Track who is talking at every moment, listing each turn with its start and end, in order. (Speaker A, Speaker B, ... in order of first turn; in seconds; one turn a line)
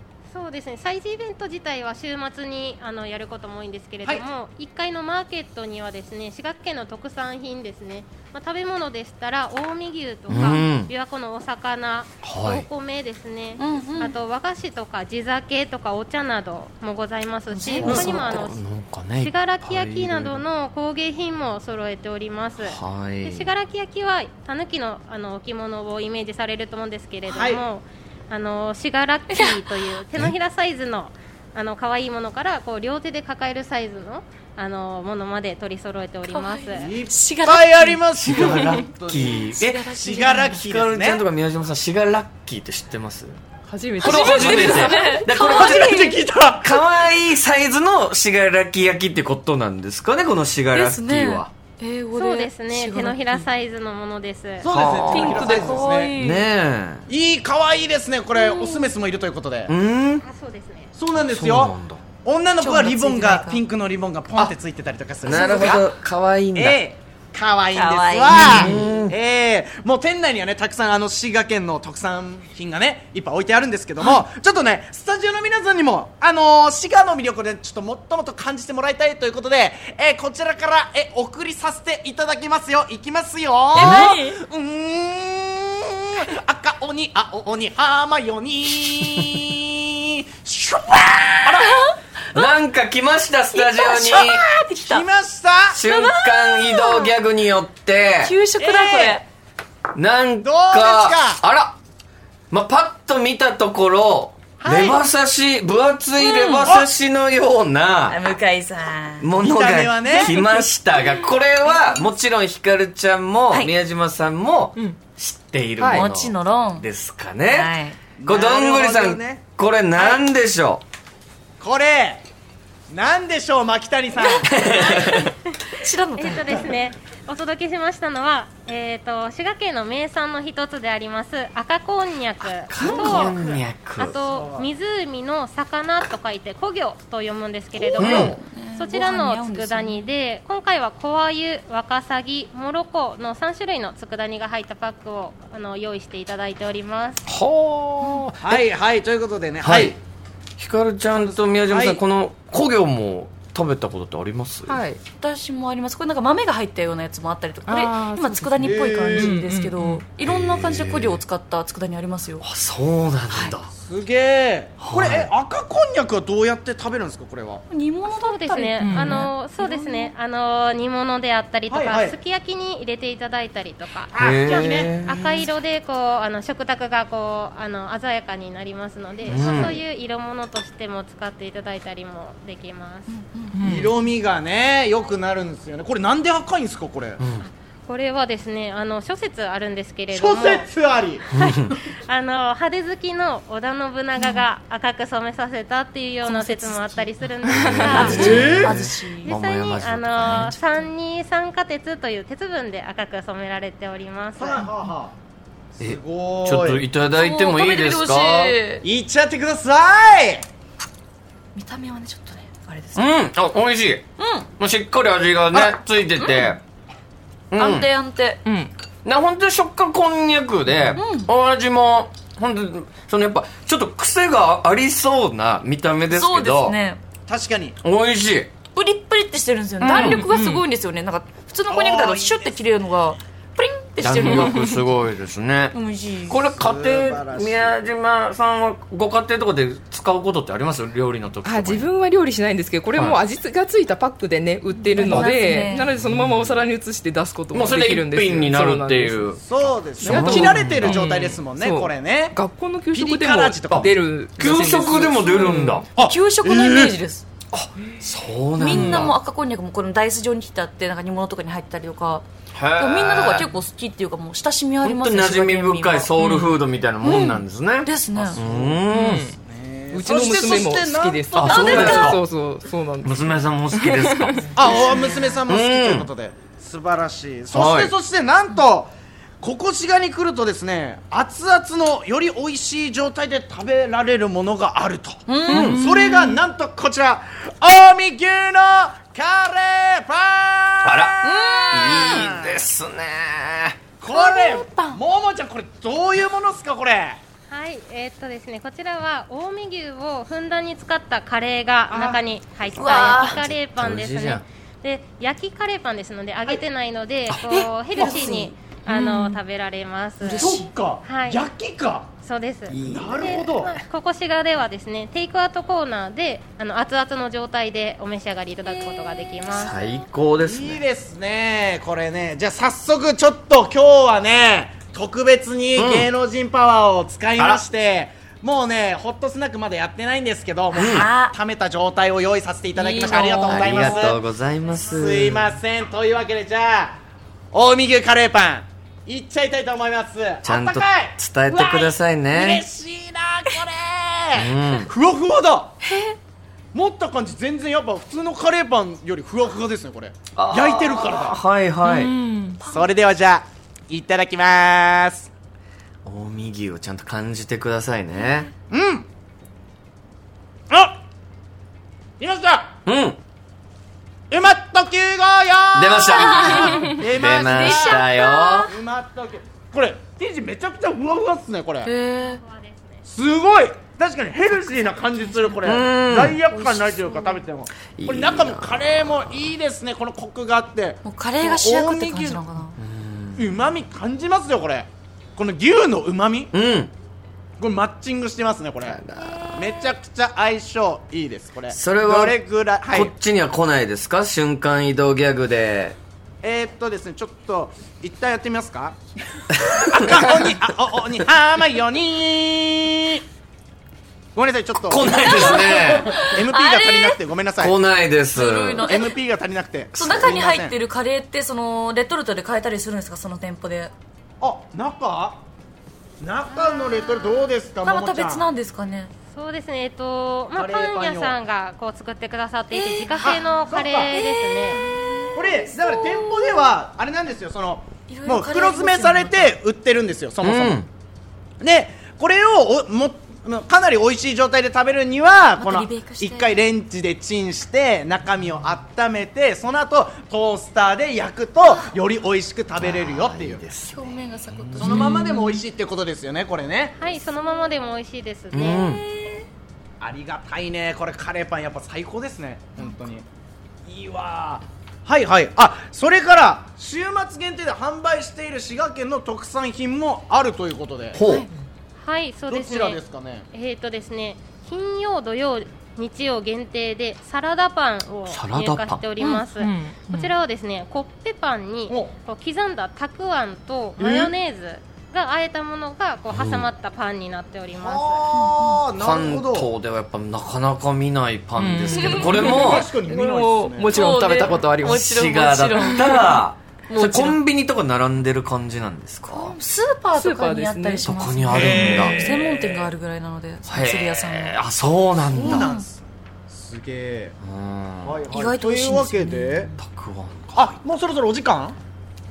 Speaker A: 0.3-36.9
Speaker B: 10.3-10.9
Speaker B: 12.2-12.7
Speaker C: 13.6-14.1
Speaker C: 17.5-18.5
Speaker B: 17.8-20.4
Speaker B: 22.6-23.5
Speaker D: 27.3-27.6
Speaker C: 36.3-38.5
Speaker D: 36.8-41.2
Speaker B: 38.2-39.8
Speaker C: 39.5-40.6
Speaker B: 40.6-43.4
Speaker E: 43.7-45.2
Speaker C: 44.0-46.1
Speaker B: 44.0-45.9
Speaker D: 44.0-46.8
Speaker B: 46.6-51.5
Speaker C: 50.7-53.5
Speaker A: 52.1-54.7
Speaker D: 54.6-56.1
Speaker B: 54.7-57.0
Speaker C: 55.1-56.5
Speaker D: 57.1-59.7
Speaker C: 58.3-58.9
Speaker B: 59.7-60.2
Speaker A: 60.2-60.9
Speaker D: 60.9-65.9
Speaker B: 61.1-62.0
Speaker C: 62.6-63.6
Speaker B: 65.2-66.8
Speaker C: 65.3-65.7
Speaker D: 66.5-91.7
Speaker C: 67.7-68.8
Speaker B: 68.3-69.1
Speaker C: 83.7-84.4
Speaker B: 83.8-84.0
Speaker C: 91.6-92.5
Speaker B: 92.3-94.4
Speaker C: 93.5-95.0
Speaker D: 94.8-95.8
Speaker B: 95.7-98.3
Speaker C: 95.8-97.2
Speaker C: 98.2-99.2
Speaker D: 98.6-99.2
Speaker B: 99.9-101.8
Speaker D: 100.4-101.4
Speaker B: 102.5-108.2
Speaker D: 104.6-105.0
Speaker C: 106.2-106.8
Speaker D: 106.6-106.9
Speaker C: 108.1-109.3
Speaker B: 109.2-120.8
Speaker D: 109.4-110.3
Speaker E: 115.8-116.0
Speaker C: 115.8-116.9
Speaker C: 117.5-118.0
Speaker D: 118.2-119.4
Speaker D: 119.9-120.2
Speaker D: 121.6-122.2
Speaker D: 122.9-125.0
Speaker B: 124.5-125.3
Speaker C: 125.0-126.7
Speaker A: 126.2-147.2
Speaker B: 132.7-134.2
Speaker D: 132.8-133.3
Speaker D: 134.2-134.7
Speaker C: 137.8-140.1
Speaker B: 137.9-138.4
Speaker B: 147.3-148.6
Speaker D: 148.4-149.9
Speaker B: 149.6-149.9
Speaker B: 150.6-154.8
Speaker D: 151.1-152.0
Speaker E: 154.7-155.0
Speaker C: 155.2-162.4
Speaker E: 157.7-160.1
Speaker D: 158.6-159.4
Speaker B: 160.2-161.2
Speaker B: 162.4-163.7
Speaker C: 163.3-163.6
Speaker D: 163.8-167.6
Speaker B: 164.8-165.3
Speaker C: 167.7-170.1
Speaker A: 168.1-183.1
Speaker E: 168.8-169.3
Speaker D: 171.7-172.2
Speaker D: 174.1-174.9
Speaker B: 174.2-175.4
Speaker B: 179.2-179.8
Speaker D: 179.4-179.7
Speaker C: 183.1-183.6
Speaker E: 183.5-183.9
Speaker D: 183.6-187.2
Speaker B: 187.2-187.4
Speaker A: 187.4-190.7
Speaker D: 190.1-191.8
Speaker B: 191.3-191.7
Speaker A: 191.4-198.4
Speaker C: 196.2-199.3
Speaker B: 197.5-200.6
Speaker D: 198.0-198.8
Speaker A: 199.2-204.7
Speaker C: 200.2-200.9
Speaker D: 204.3-205.1
Speaker D: 205.8-206.8
Speaker B: 205.8-208.6
Speaker C: 207.1-208.8
Speaker D: 208.8-210.4
Speaker C: 211.5-213.1
Speaker B: 212.9-214.0
Speaker C: 214.2-214.5
Speaker B: 214.6-216.6
Speaker C: 216.2-216.5
Speaker B: 217.5-217.9
Speaker C: 217.6-218.4
Speaker E: 218.4-218.7
Speaker B: 219.0-226.8
Speaker C: 220.9-221.3
Speaker C: 226.1-227.0
Speaker D: 227.3-227.8
Speaker B: 227.8-228.5
Speaker C: 228.7-234.7
Speaker B: 229.8-230.3
Speaker E: 229.8-230.6
Speaker D: 231.7-232.5
Speaker B: 234.0-235.8
Speaker C: 235.7-236.4
Speaker B: 236.3-241.9
Speaker D: 236.6-237.8
Speaker E: 241.4-249.3
Speaker C: 244.8-245.9
Speaker B: 246.1-246.5
Speaker B: 247.5-249.4
Speaker D: 249.4-252.4
Speaker B: 249.9-251.0
Speaker E: 250.0-255.8
Speaker D: 252.9-253.9
Speaker B: 253.7-255.8
Speaker C: 255.3-257.2
Speaker D: 256.0-257.0
Speaker B: 257.5-259.1
Speaker C: 258.6-266.1
Speaker B: 262.5-263.5
Speaker B: 264.8-269.2
Speaker E: 266.2-266.6
Speaker C: 267.0-268.4
Speaker D: 268.1-272.1
Speaker E: 268.9-269.4
Speaker E: 269.9-273.2
Speaker B: 271.3-272.2
Speaker C: 271.5-272.1
Speaker B: 273.0-274.9
Speaker E: 273.7-274.4
Speaker D: 274.5-292.7
Speaker B: 275.5-276.1
Speaker B: 277.5-277.9
Speaker C: 285.3-286.3
Speaker B: 285.5-285.8
Speaker B: 290.8-291.1
Speaker C: 291.2-292.2
Speaker B: 291.7-293.8
Speaker D: 294.0-297.2
Speaker C: 294.1-295.0
Speaker A: 297.5-310.5
Speaker D: 301.9-302.2
Speaker C: 302.8-303.4
Speaker B: 302.9-304.4
Speaker C: 307.5-309.4
Speaker C: 310.2-310.7
Speaker D: 310.4-312.1
Speaker A: 311.0-311.4
Speaker A: 312.2-319.9
Speaker B: 312.8-313.4
Speaker D: 312.8-313.7
Speaker B: 319.5-320.8
Speaker D: 320.4-334.2
Speaker B: 325.8-326.1
Speaker B: 327.4-327.6
Speaker C: 330.7-331.3
Speaker B: 330.7-331.1
Speaker C: 332.8-333.8
Speaker B: 333.4-335.5
Speaker D: 334.8-336.9
Speaker D: 337.5-345.7
Speaker B: 340.4-342.6
Speaker B: 344.3-344.9
Speaker C: 345.8-346.1
Speaker D: 346.7-351.4
Speaker B: 350.3-352.1
Speaker E: 351.8-352.6
Speaker D: 352.6-355.3
Speaker B: 356.0-358.5
Speaker D: 358.7-359.1
Speaker D: 360.7-361.0
Speaker D: 362.2-362.7
Speaker B: 362.9-363.2
Speaker D: 364.3-368.1
Speaker B: 365.7-368.7
Speaker C: 366.1-366.9
Speaker C: 367.4-368.7
Speaker D: 368.6-371.9
Speaker C: 371.8-372.4
Speaker A: 372.2-373.0
Speaker D: 373.1-382.4
Speaker C: 375.2-375.6
Speaker B: 375.6-376.4
Speaker C: 376.5-377.4
Speaker B: 378.0-379.5
Speaker C: 381.0-382.8
Speaker B: 382.8-383.5
Speaker D: 383.4-386.5
Speaker B: 386.5-386.9
Speaker D: 387.6-389.0
Speaker B: 388.8-389.7
Speaker D: 389.5-393.1
Speaker B: 391.7-392.4
Speaker B: 392.9-396.0
Speaker D: 396.4-398.9
Speaker D: 399.8-403.2
Speaker D: 404.3-407.7
Speaker B: 404.8-406.1
Speaker C: 405.1-407.1
Speaker B: 407.6-408.9
Speaker C: 408.3-409.1
Speaker D: 408.8-410.8
Speaker B: 409.9-410.2
Speaker C: 409.9-413.9
Speaker D: 414.4-415.4
Speaker D: 416.2-418.4
Speaker C: 417.8-419.1
Speaker A: 419.3-424.8
Speaker D: 420.5-421.4
Speaker C: 422.7-423.4
Speaker D: 423.2-424.2
Speaker C: 424.1-426.8
Speaker D: 425.3-430.9
Speaker C: 428.1-429.6
Speaker B: 430.4-430.9
Speaker D: 431.6-443.6
Speaker C: 435.6-436.7
Speaker C: 441.6-441.9
Speaker B: 442.8-445.3
Speaker C: 443.9-445.6
Speaker D: 444.8-447.0
Speaker A: 447.0-448.8
Speaker B: 448.5-449.0
Speaker C: 448.7-449.4
Speaker D: 450.0-453.2
Speaker D: 453.9-461.2
Speaker B: 461.1-461.4
Speaker C: 461.2-461.5
Speaker A: 462.0-463.0
Speaker D: 462.5-463.4
Speaker A: 463.5-478.2
Speaker B: 468.2-469.0
Speaker E: 469.5-470.3
Speaker D: 474.0-474.3
Speaker B: 476.3-476.7
Speaker D: 477.7-479.7
Speaker B: 479.0-482.9
Speaker E: 481.6-485.0
Speaker C: 482.0-482.3
Speaker D: 482.4-484.0
Speaker C: 483.9-487.4
Speaker B: 484.8-489.5
Speaker C: 489.3-494.6
Speaker E: 490.1-491.1
Speaker B: 491.0-492.3
Speaker D: 491.5-492.9
Speaker B: 493.6-495.6
Speaker D: 495.3-497.3
Speaker C: 495.3-495.8
Speaker B: 497.4-498.2
Speaker D: 498.0-499.7
Speaker C: 498.3-499.7
Speaker B: 499.8-500.7
Speaker D: 500.5-501.8